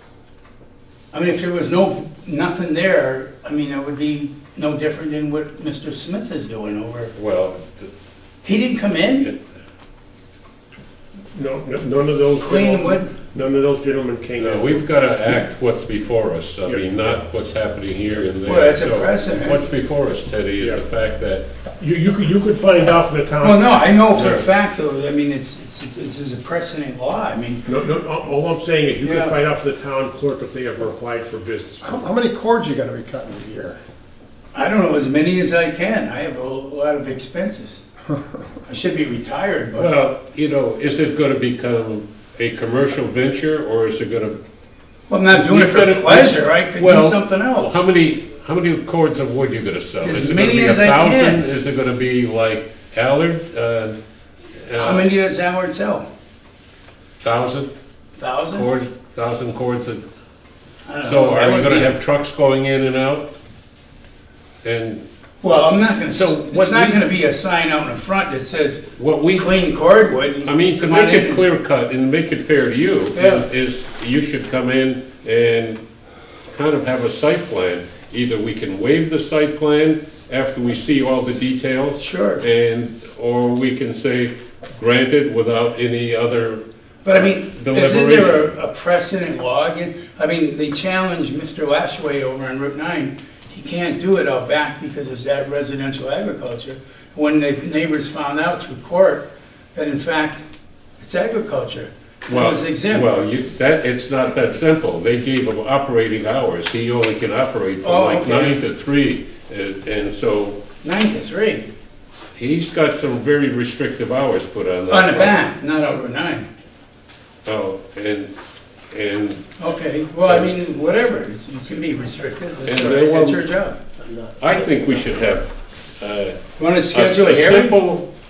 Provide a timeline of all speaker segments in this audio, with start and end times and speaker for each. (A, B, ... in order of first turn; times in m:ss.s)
0:01.1-0:07.1 A
0:07.1-0:07.9 B
0:08.4-0:09.3 A
0:11.3-0:14.8 C
0:12.4-0:13.1 A
0:14.4-0:21.5 B
0:18.4-0:19.6 A
0:21.8-0:24.4 C
0:23.4-0:27.6 A
0:27.6-0:32.0 C
0:29.0-0:29.4 A
0:31.8-0:33.8 D
0:34.5-0:37.8 A
0:38.7-0:39.9 A
0:39.8-0:44.4 B
0:45.1-0:47.8 A
0:45.3-0:54.0 B
0:50.0-0:51.4 A
0:54.6-0:55.1 B
0:54.8-0:56.0 A
0:57.2-0:57.7 B
0:58.2-0:58.7 A
0:58.5-1:00.0 B
1:00.8-1:01.9 A
1:01.0-1:03.3 B
1:04.6-1:05.0 B
1:05.4-1:11.4 A
1:06.1-1:07.0 B
1:09.0-1:09.5 B
1:10.4-1:15.8 B
1:13.1-1:13.4 A
1:16.5-1:28.5 B
1:22.0-1:22.4 A
1:27.0-1:40.4 A
1:41.0-1:43.1 A
1:42.3-1:50.6 B
1:47.8-1:48.6 A
1:50.8-1:51.7 A
1:52.4-1:55.4 B
1:54.9-1:56.5 A
1:57.4-1:58.3 B
1:58.9-1:59.4 B
1:59.6-2:03.8 A
2:02.6-2:03.4 B
2:04.4-2:06.4 B
2:06.6-2:07.7 A
2:06.9-2:08.1 B